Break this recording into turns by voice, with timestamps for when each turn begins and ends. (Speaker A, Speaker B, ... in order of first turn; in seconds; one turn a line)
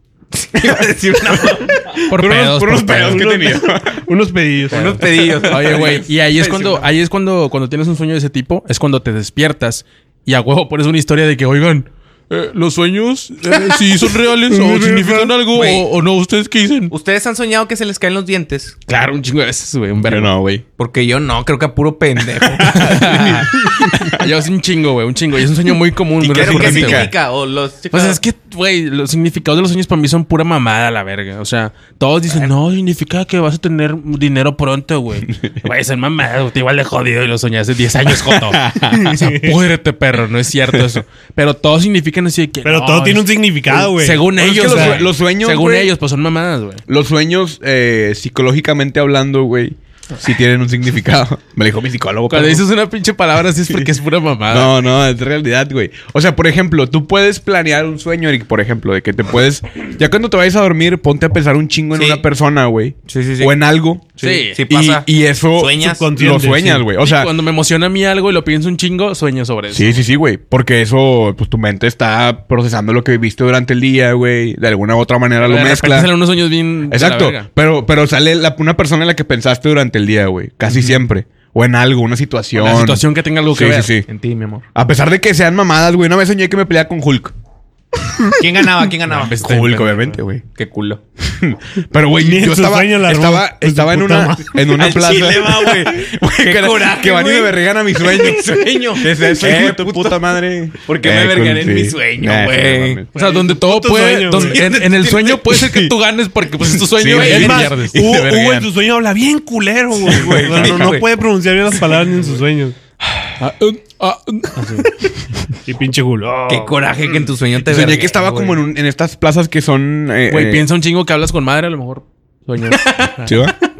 Speaker A: 0.3-2.0
Speaker B: 2.1-3.2
Speaker C: 2.1-4.0
Speaker D: 2.9-5.0
Speaker A: 4.7-6.9
Speaker B: 4.7-16.9
Speaker D: 14.5-15.3
Speaker A: 15.5-15.8
Speaker A: 16.9-18.8
Speaker B: 18.9-20.3
Speaker C: 20.0-20.6
Speaker A: 20.8-23.2
Speaker C: 22.4-24.3
Speaker B: 22.7-27.1
Speaker C: 26.2-27.1
Speaker A: 26.2-28.2
Speaker B: 27.9-46.8
Speaker C: 35.3-35.7
Speaker C: 38.1-39.2
Speaker D: 38.9-39.6
Speaker D: 42.6-45.0
Speaker C: 44.3-45.9
Speaker C: 46.9-52.6
Speaker B: 52.3-54.7
Speaker C: 54.5-67.3
Speaker A: 61.9-62.2
Speaker A: 63.1-63.5
Speaker A: 64.2-66.0
Speaker B: 64.2-64.6
Speaker D: 65.8-66.8
Speaker B: 67.0-70.0
Speaker C: 69.7-76.1
Speaker B: 75.4-77.5
Speaker C: 76.9-84.0
Speaker B: 82.5-83.9
Speaker A: 84.1-84.6
Speaker C: 84.7-87.3
Speaker A: 88.4-89.9
Speaker B: 89.1-90.2
Speaker C: 89.4-90.4
Speaker A: 90.5-91.0
Speaker C: 91.2-103.1
Speaker D: 92.2-94.5
Speaker A: 94.7-103.0
Speaker D: 103.1-104.6
Speaker B: 103.1-108.0
Speaker A: 104.4-105.3
Speaker C: 105.3-105.9
Speaker C: 106.6-108.7
Speaker A: 107.1-107.7
Speaker D: 107.2-112.8
Speaker C: 110.0-111.0
Speaker A: 110.1-111.1
Speaker C: 113.0-113.3
Speaker B: 113.4-114.9
Speaker D: 114.6-114.8
Speaker D: 115.6-116.9
Speaker A: 116.5-118.6
Speaker C: 117.6-120.6
Speaker B: 120.3-123.4
Speaker A: 122.7-123.1
Speaker C: 123.2-123.5